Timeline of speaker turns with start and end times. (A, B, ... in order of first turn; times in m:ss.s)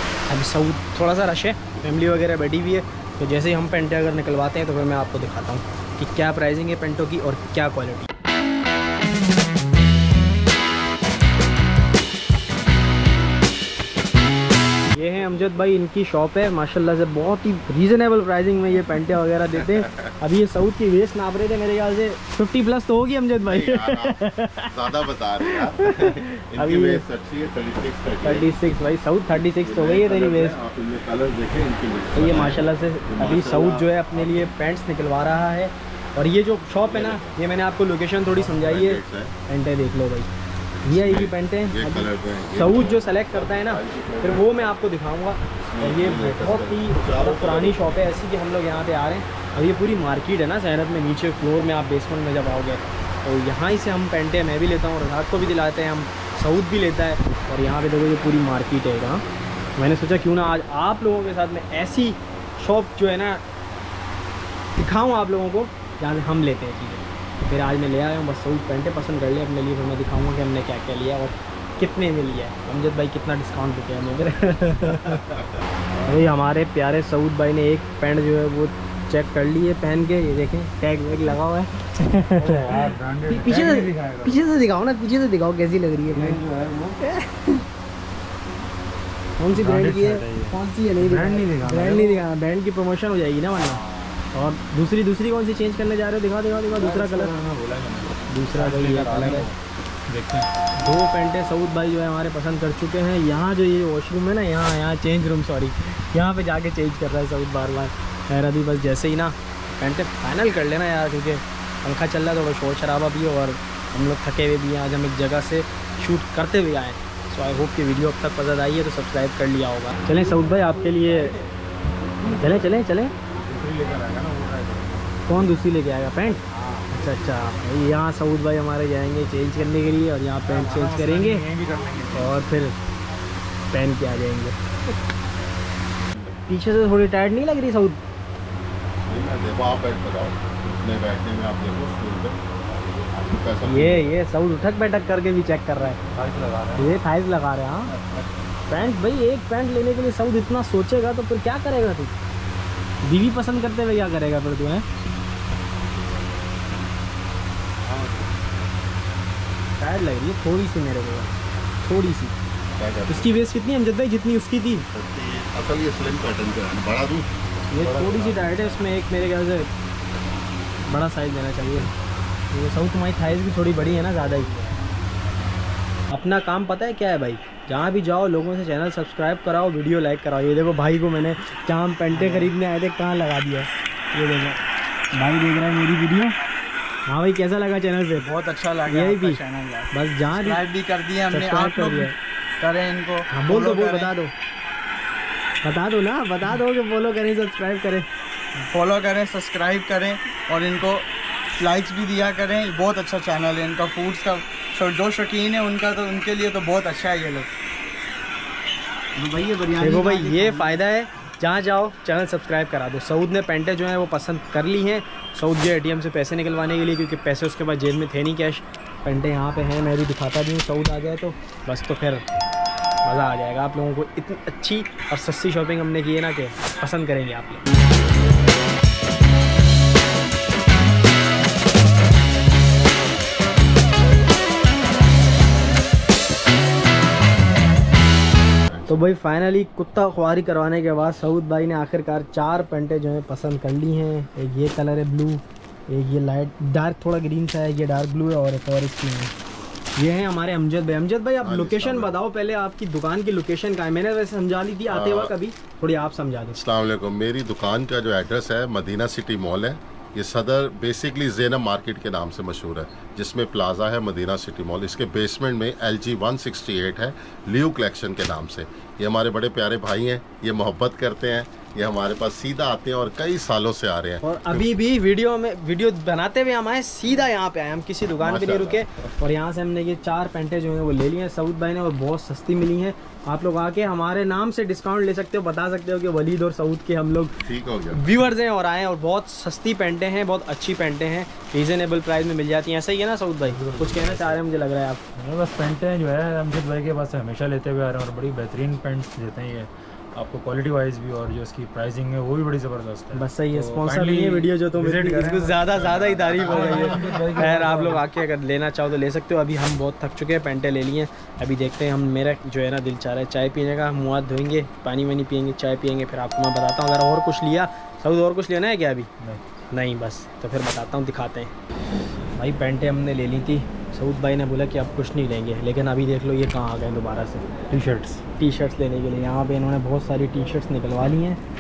0:00.3-0:08.1 A
0:14.9-0:24.7 A
0:19.6-0:20.1 B
0:23.5-0:28.7 B
0:25.5-0:27.0 A
0:28.2-0:30.6 A
0:29.3-0:34.5 B
0:32.2-0:40.3 A
0:36.8-0:37.4 B
0:38.3-0:39.3 B
0:40.8-0:44.7 B
0:40.9-0:59.2 A
0:45.6-0:48.2 B
0:59.8-1:03.4 A
1:04.8-1:15.2 A
1:16.1-1:26.4 A
1:22.4-1:24.4 C
1:26.1-1:27.0 C
1:27.0-1:27.6 A
1:29.4-1:33.8 A
1:29.5-1:32.2 C
1:33.6-1:34.2 C
1:34.3-1:37.3 A
1:36.7-1:39.6 C
1:38.3-1:39.5 A
1:40.1-1:40.5 C
1:40.8-2:01.3 A
2:02.4-2:03.1 A
2:03.4-2:05.1 C
2:05.3-2:11.4 A
2:10.5-2:12.4 C
2:12.2-2:12.8 A
2:13.7-2:14.6 A
2:16.5-2:18.0 A
2:19.0-2:22.4 B
2:23.0-2:24.1 B
2:23.6-2:26.0 A
2:26.1-2:27.0 C
2:26.8-2:27.9 A
2:27.9-2:28.3 C
2:28.7-2:32.1 A
2:33.0-2:34.8 A
2:39.8-2:41.3 A
2:41.8-2:42.4 A
2:42.8-2:43.5 B
2:43.1-2:44.9 A
2:44.9-2:47.4 B
2:47.7-2:49.7 A
2:47.8-2:48.7 C
2:50.8-2:51.9 A
2:52.5-2:54.5 A
2:56.1-3:04.6 A
3:02.1-3:02.5 C
3:05.2-3:06.4 A
3:07.1-3:08.3 A
3:08.2-3:12.1 D
3:08.9-3:09.4 A
3:09.9-3:10.6 A
3:11.3-3:12.1 A
3:12.6-3:14.1 D
3:13.3-3:14.3 A
3:15.6-3:18.1 A
3:18.6-3:21.1 D
3:21.6-3:27.5 D
3:29.2-3:30.8 D
3:29.8-3:42.2 A
3:43.0-3:47.6 A
3:58.7-3:59.0 B
3:58.9-4:09.3 A
4:10.0-4:16.6 A
4:11.4-4:12.2 B
4:14.9-4:15.3 B
4:16.6-4:34.7 B
4:34.2-4:47.4 A
4:38.2-4:38.8 B
4:47.4-4:48.3 B
4:47.9-4:55.0 A
4:53.4-4:54.4 C
4:55.2-5:08.0 C
5:03.2-5:19.1 A
5:05.9-5:06.4 B
5:19.7-5:21.5 A
5:22.4-5:27.5 A
5:27.7-5:28.2 C
5:28.4-5:31.4 A